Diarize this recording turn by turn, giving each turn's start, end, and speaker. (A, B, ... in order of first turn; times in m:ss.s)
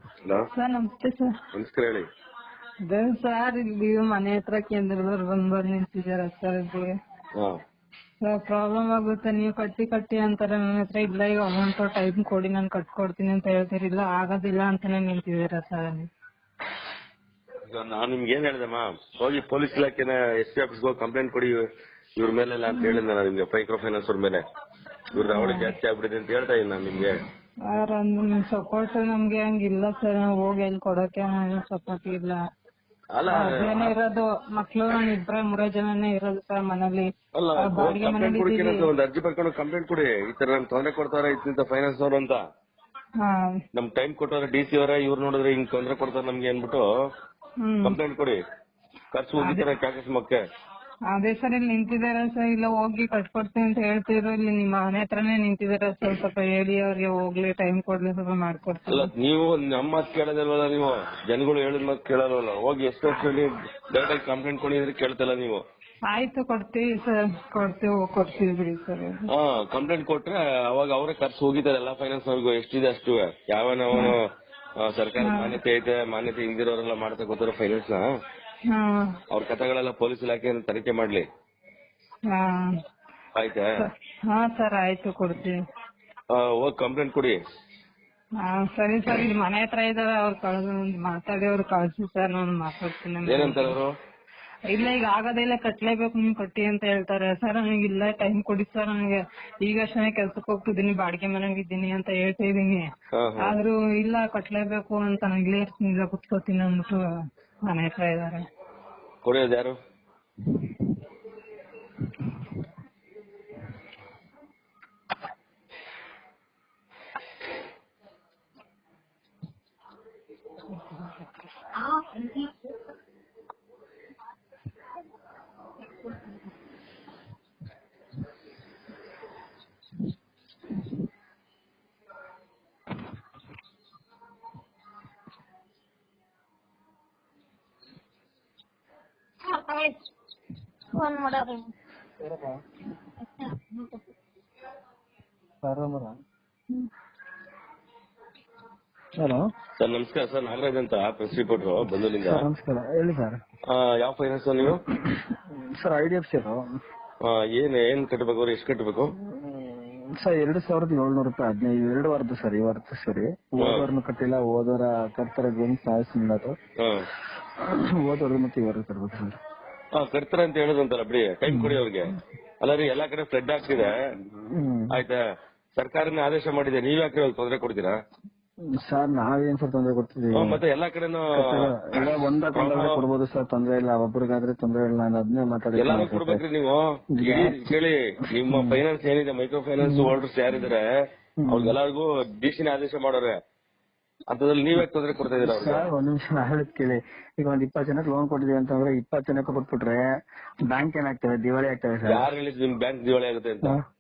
0:00.5-0:01.3 A
0:01.5-0:02.1 B
0:02.9-0:06.9 A
0:08.2-0:16.1 A
0:17.7-0:21.6 B
0:22.2-0:24.4 B
0:22.8-0:23.0 A
0:25.1-0:27.2 B
0:25.2-0:25.7 A
0:27.7-0:32.4 A
0:33.1-0:34.0 B
0:33.3-0:38.9 A
0:37.4-0:42.4 B
0:43.2-0:43.6 A
0:43.7-0:46.9 B
0:47.6-0:48.0 A
0:47.8-0:48.4 B
0:49.1-0:50.4 B
0:49.4-0:49.7 A
0:51.1-0:59.1 A
0:58.9-1:05.6 B
1:06.1-1:09.3 A
1:09.3-1:14.2 B
1:14.8-1:18.1 B
1:15.2-1:15.6 A
1:18.7-1:19.2 A
1:19.3-1:21.3 B
1:22.3-1:22.7 A
1:23.4-1:23.7 B
1:23.8-1:25.6 A
1:26.3-1:27.4 B
1:28.4-1:33.8 A
1:33.2-1:33.9 B
1:34.7-1:42.8 A
1:43.2-1:43.6 B
1:43.4-1:47.0 A
1:47.7-1:48.4 A
1:49.2-1:49.8 B
2:01.8-2:02.4 C
2:19.5-2:20.0 C
2:21.0-2:21.7 C
2:22.2-2:22.6 D
2:25.6-2:26.2 D
2:29.2-2:29.5 D
2:29.8-2:32.4 B
2:32.2-2:33.4 D
2:33.7-2:34.8 B
2:34.6-2:36.6 D
2:37.2-2:39.1 B
2:39.2-2:46.6 D
2:43.6-2:43.9 B
2:46.8-2:47.1 B
2:47.6-2:49.4 D
2:50.0-2:52.1 B
2:51.5-2:51.8 D
2:52.6-2:54.0 B
2:54.4-2:55.0 D
2:54.9-2:55.2 B
2:55.8-2:58.0 B
2:58.8-3:00.6 D
3:00.4-3:03.0 B
3:01.3-3:06.4 D
3:05.8-3:10.8 B
3:07.1-3:07.7 D
3:08.4-3:08.8 D
3:09.8-3:10.1 D
3:11.4-3:11.8 D
3:11.5-3:13.4 B
3:14.3-3:15.9 B
3:15.4-3:20.1 D
3:20.7-3:22.3 D
3:22.0-3:23.8 B